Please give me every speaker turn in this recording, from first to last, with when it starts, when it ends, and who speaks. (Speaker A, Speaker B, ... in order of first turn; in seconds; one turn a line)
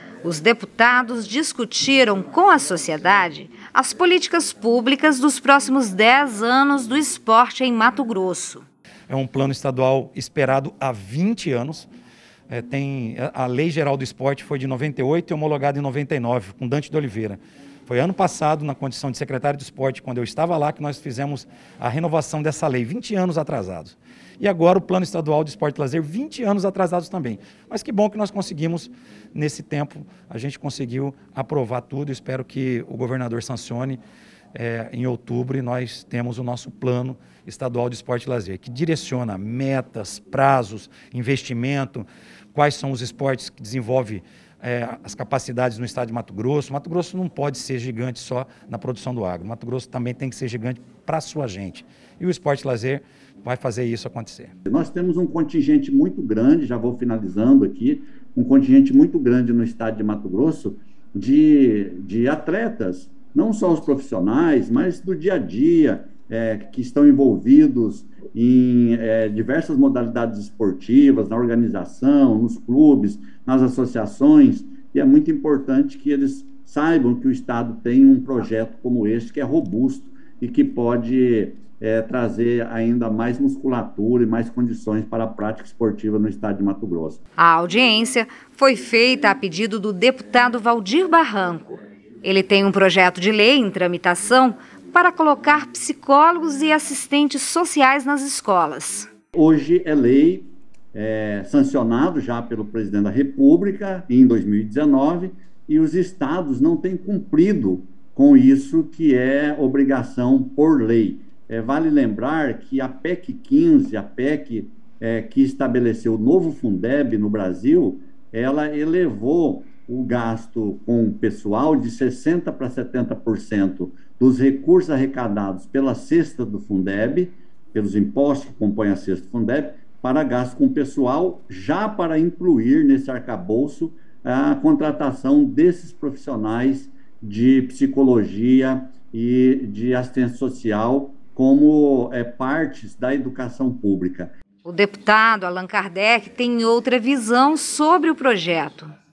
Speaker A: 0.2-8.6
Speaker B: 9.1-11.9
Speaker B: 12.5-34.0
Speaker B: 34.5-54.5
Speaker C: 54.6-87.2
Speaker A: 87.4-99.1
Speaker C: 99.3-144.3
Speaker A: 144.6-148.9